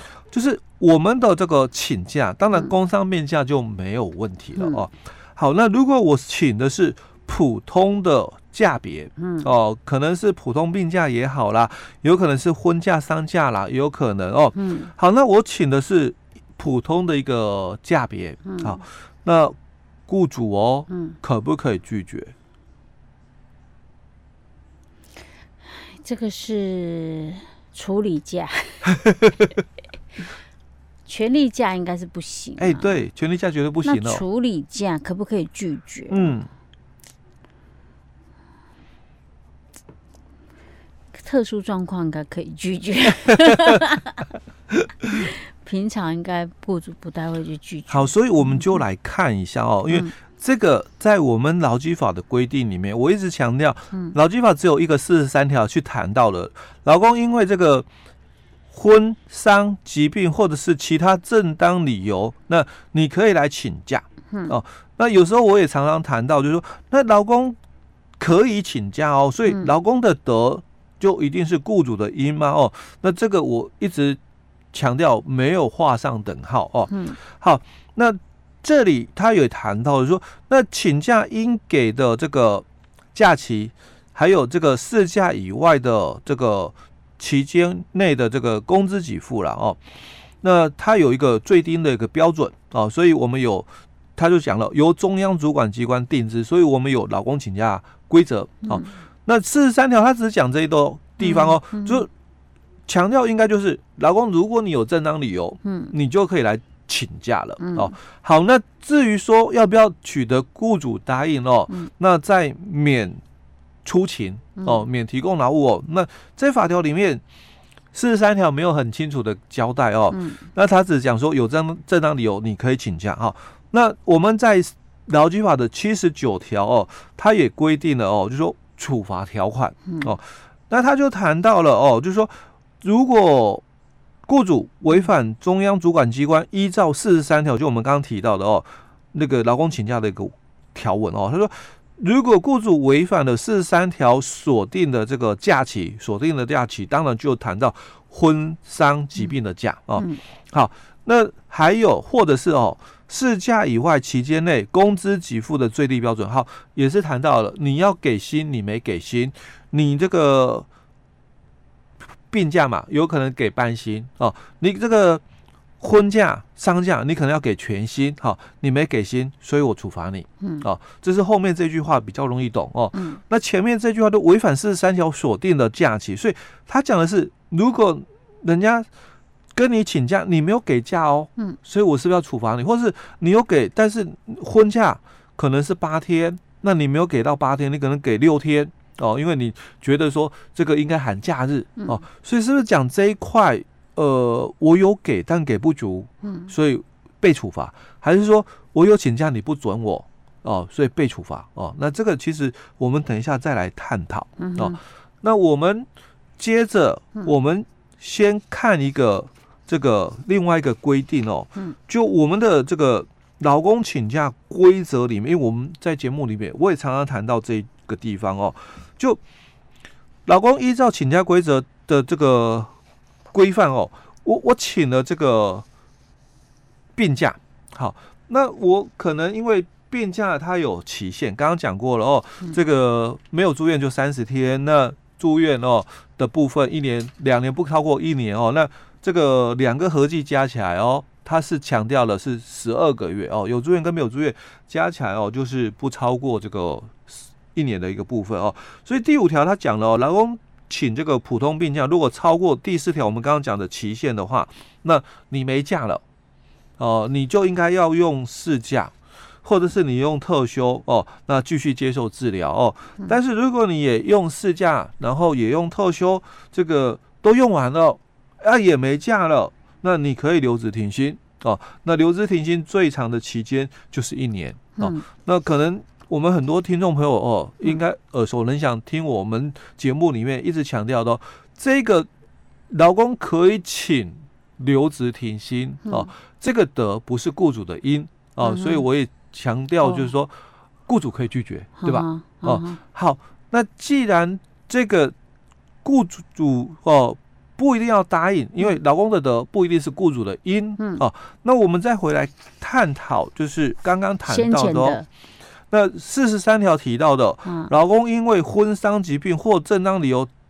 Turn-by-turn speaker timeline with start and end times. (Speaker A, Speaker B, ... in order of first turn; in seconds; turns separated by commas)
Speaker A: 0.3-19.6, Speaker B: 4.5-4.8, Speaker B: 9.2-9.5, Speaker B: 14.5-14.9, Speaker B: 18.4-18.8, Speaker A: 20.1-22.3, Speaker B: 20.9-21.2, Speaker B: 25.7-28.9, Speaker B: 31.1-33.0, Speaker A: 32.6-34.2, Speaker B: 33.8-36.3, Speaker A: 36.1-36.5, Speaker B: 41.1-44.3, Speaker B: 45.0-48.8, Speaker A: 47.9-57.9, Speaker A: 58.7-67.6, Speaker A: 68.2-74.2, Speaker A: 74.7-89.8, Speaker B: 76.9-77.2, Speaker A: 90.4-102.1, Speaker B: 101.2-102.0, Speaker A: 102.9-113.2, Speaker B: 105.6-105.9, Speaker B: 107.6-107.9, Speaker A: 113.8-117.2, Speaker B: 114.6-114.8, Speaker A: 117.9-133.6, Speaker B: 120.1-120.4, Speaker A: 134.2-160.7, Speaker A: 162.3-165.2, Speaker A: 165.8-178.9, Speaker B: 170.4-170.7, Speaker B: 172.9-173.2, Speaker A: 179.5-205.9, Speaker B: 196.2-196.5, Speaker B: 204.4-204.8, Speaker A: 206.4-219.2, Speaker A: 220.2-222.7, Speaker A: 223.3-225.6, Speaker A: 226.9-256.0, Speaker A: 256.8-282.1, Speaker B: 274.8-275.0, Speaker A: 282.7-290.3, Speaker B: 288.4-288.8, Speaker A: 290.9-295.1, Speaker B: 291.8-292.8, Speaker A: 295.8-305.0, Speaker B: 300.8-301.0, Speaker B: 304.3-305.1, Speaker A: 305.7-310.3, Speaker B: 307.4-307.7